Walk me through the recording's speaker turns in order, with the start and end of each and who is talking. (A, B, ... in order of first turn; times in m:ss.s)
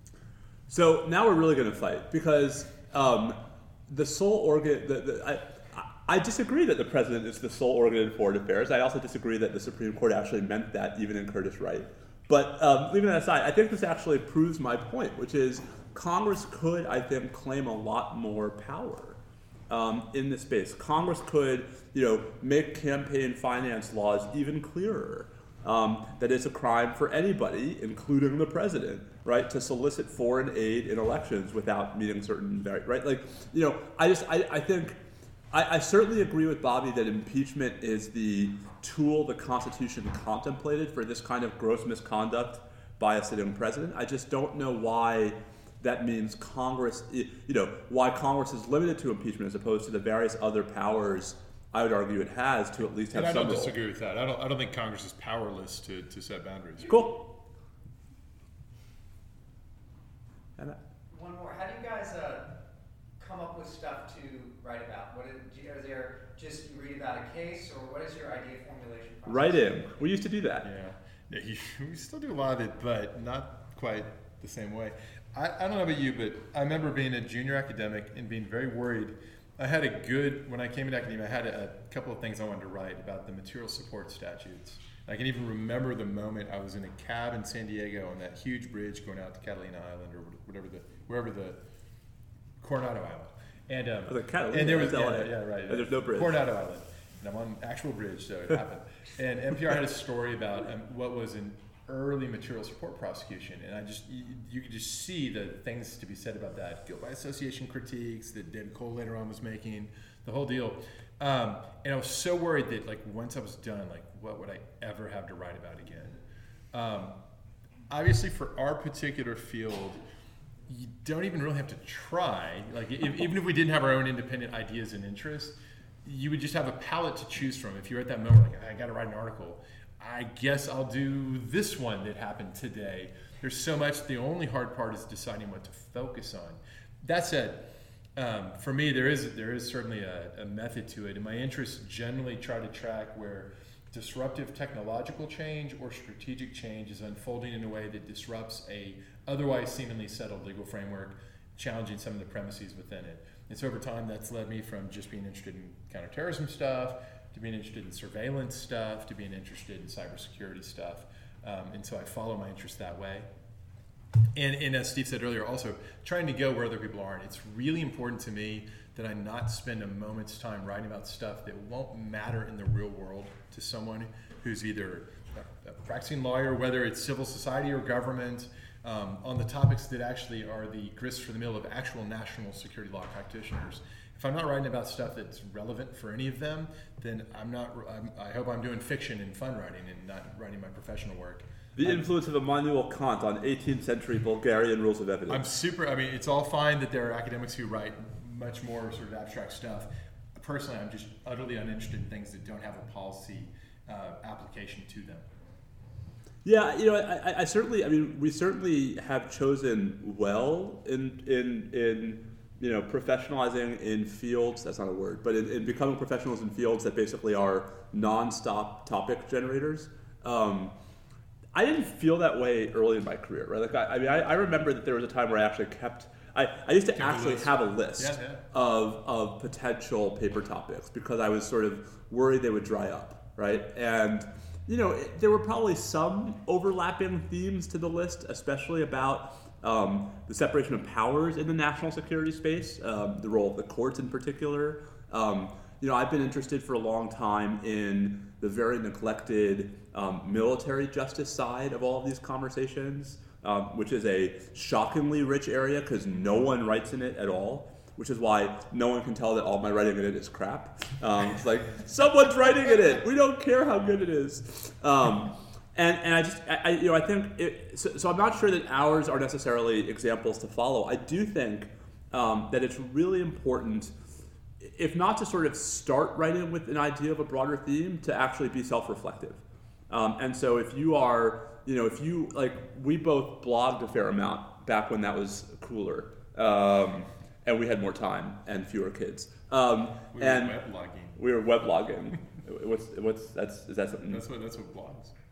0:00.7-0:35.0 A
0:35.5-0:53.7 A
0:53.1-0:57.0 B
0:56.8-0:57.3 A
1:01.1-1:02.6 C
1:03.2-1:09.9 C
1:09.2-1:10.7 A
1:10.6-1:31.6 B
1:32.6-1:56.2 B
1:34.1-1:36.4 A
1:56.7-1:57.2 B
1:57.9-2:00.0 B
2:00.7-2:43.3 B
2:44.3-3:12.1 B
3:11.8-3:15.4 A
3:15.3-3:25.3 B
3:26.4-3:40.7 A
3:41.5-4:33.9 A
3:46.9-3:48.4 B
4:34.6-4:50.6 A
4:50.1-4:51.2 B
4:51.2-4:54.2 A
4:54.0-4:55.1 B